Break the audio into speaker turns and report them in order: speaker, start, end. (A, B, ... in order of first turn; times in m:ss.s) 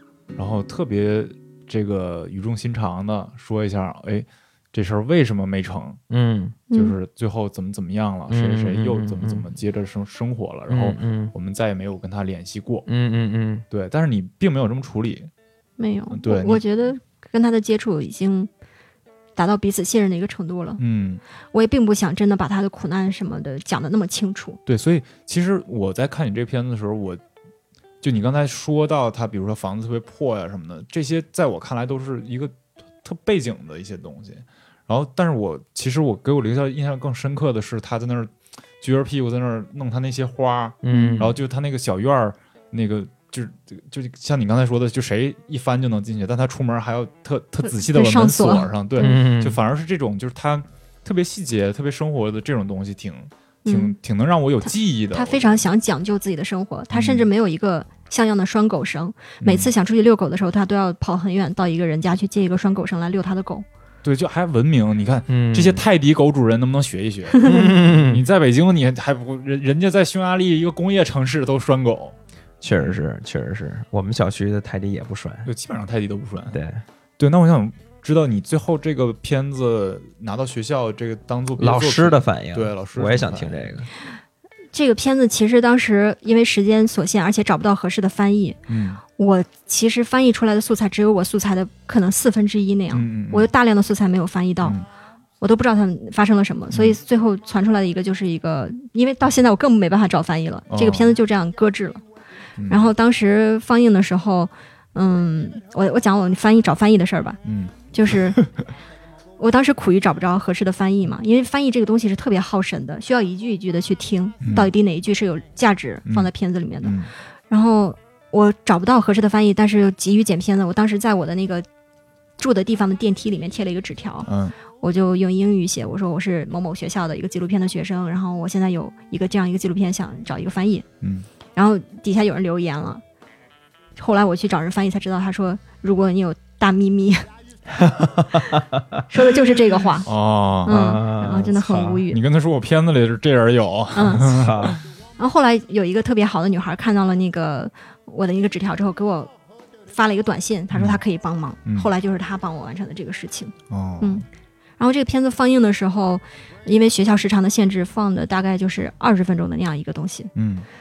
0:00.4-0:06.0 A
0:06.1-0:06.6 B
0:06.7-0:07.0 C
0:06.7-0:12.8 A
0:08.3-0:09.4 B
0:10.7-0:11.3 B
0:12.9-0:13.6 B
0:13.7-0:15.3 A
0:15.8-0:18.5 C
0:16.1-0:16.6 A
0:19.4-0:20.8 C
0:20.8-0:21.2 A
0:21.5-0:24.6 C
0:24.6-0:27.2 A
0:28.0-0:55.6 A
0:40.8-0:41.3 B
0:40.9-0:41.2 C
0:47.6-0:49.2 C
0:49.0-0:49.6 B
0:53.6-0:54.0 C
0:55.1-1:03.6 C
0:56.9-0:57.3 A
0:59.4-0:59.7 A
1:04.0-1:12.2 A
1:05.3-1:05.8 B
1:07.4-1:08.2 B
1:12.6-1:15.5 B
1:15.4-1:16.6 A
1:16.5-1:16.8 B
1:17.2-1:23.7 A
1:21.6-1:23.9 B
1:24.7-1:28.6 C
1:28.7-1:29.0 A
1:29.2-1:34.8 C
1:32.9-1:33.5 A
1:35.4-1:42.0 C
1:36.7-1:37.0 A
1:40.7-1:41.2 A
1:42.6-1:42.9 A
1:42.7-1:47.4 C
1:47.4-1:48.6 A
1:47.9-1:48.4 C
1:49.4-1:57.0 C
1:54.4-1:54.7 A
1:56.0-1:56.3 A
1:56.8-1:57.1 A
1:57.5-2:01.7 C
2:02.4-2:10.8 C
2:04.3-2:04.5 A
2:11.0-2:11.3 A
2:11.5-2:13.0 C
2:14.0-2:17.2 C
2:17.8-2:18.6 B
2:19.1-2:20.1 C
2:20.0-2:21.5 A
2:20.6-2:22.2 C
2:20.7-2:22.0 B
2:22.0-2:24.8 A
2:23.9-2:24.4 C
2:24.3-2:24.8 B
2:25.2-2:29.3 C
2:29.9-2:34.2 C
2:30.7-2:31.0 A
2:33.7-2:34.2 A
2:34.8-2:40.3 C
2:40.3-2:40.7 A